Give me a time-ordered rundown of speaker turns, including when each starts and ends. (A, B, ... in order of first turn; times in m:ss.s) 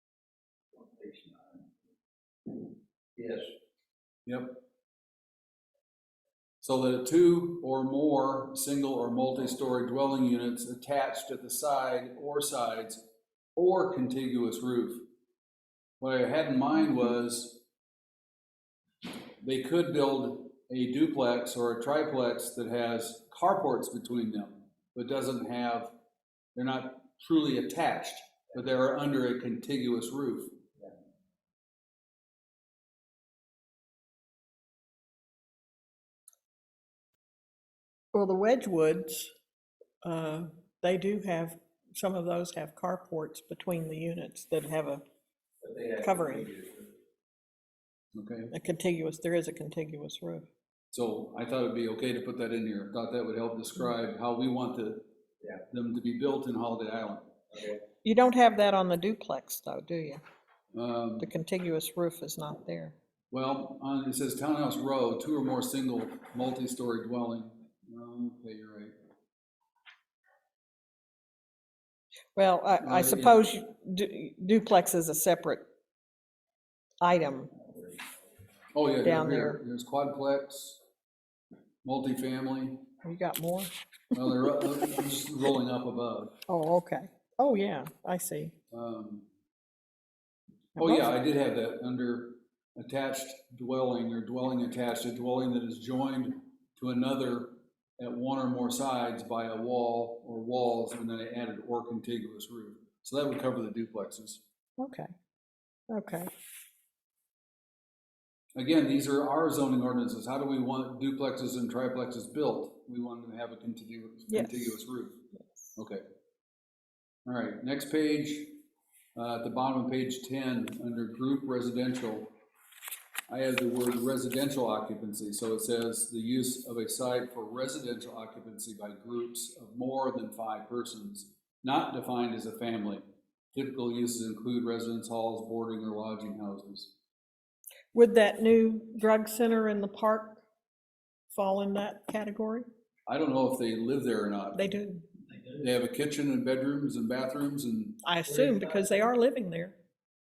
0:00.8-0:01.7 A
0:03.2-0:03.5 A
0:04.3-0:04.6 B
0:06.6-0:13.0 B
0:13.6-0:15.1 B
0:16.0-0:17.6 B
0:19.4-0:25.9 B
0:26.6-0:30.6 B
0:38.1-0:39.3 C
0:40.0-0:45.0 C
0:45.6-0:47.0 A
0:46.0-0:46.4 C
0:48.1-0:48.5 B
0:48.5-0:50.5 C
0:50.9-0:55.0 B
0:55.7-0:57.3 B
0:57.5-0:57.8 A
0:58.0-1:00.2 C
1:00.7-1:01.3 B
1:01.2-1:02.9 C
1:03.3-1:09.0 B
1:12.4-1:15.6 C
1:12.8-1:13.4 B
1:17.0-1:17.5 C
1:17.5-1:18.1 A
1:18.7-1:20.8 B
1:19.0-1:19.6 C
1:21.8-1:22.8 B
1:23.0-1:23.7 C
1:24.1-1:26.4 B
1:26.5-1:28.5 C
1:28.7-1:29.3 B
1:30.8-1:44.4 B
1:30.8-1:31.1 C
1:44.8-1:45.1 C
1:45.9-1:46.3 C
1:48.6-1:55.2 B
1:54.3-1:54.7 C
1:55.8-1:56.0 B
1:57.3-1:58.6 B
1:59.2-2:02.3 B
2:03.3-2:16.9 B
2:17.9-2:20.4 C
2:21.3-2:22.7 C
2:23.1-2:24.8 B
2:24.6-2:25.0 C
2:25.5-2:28.0 B
2:28.0-2:29.8 C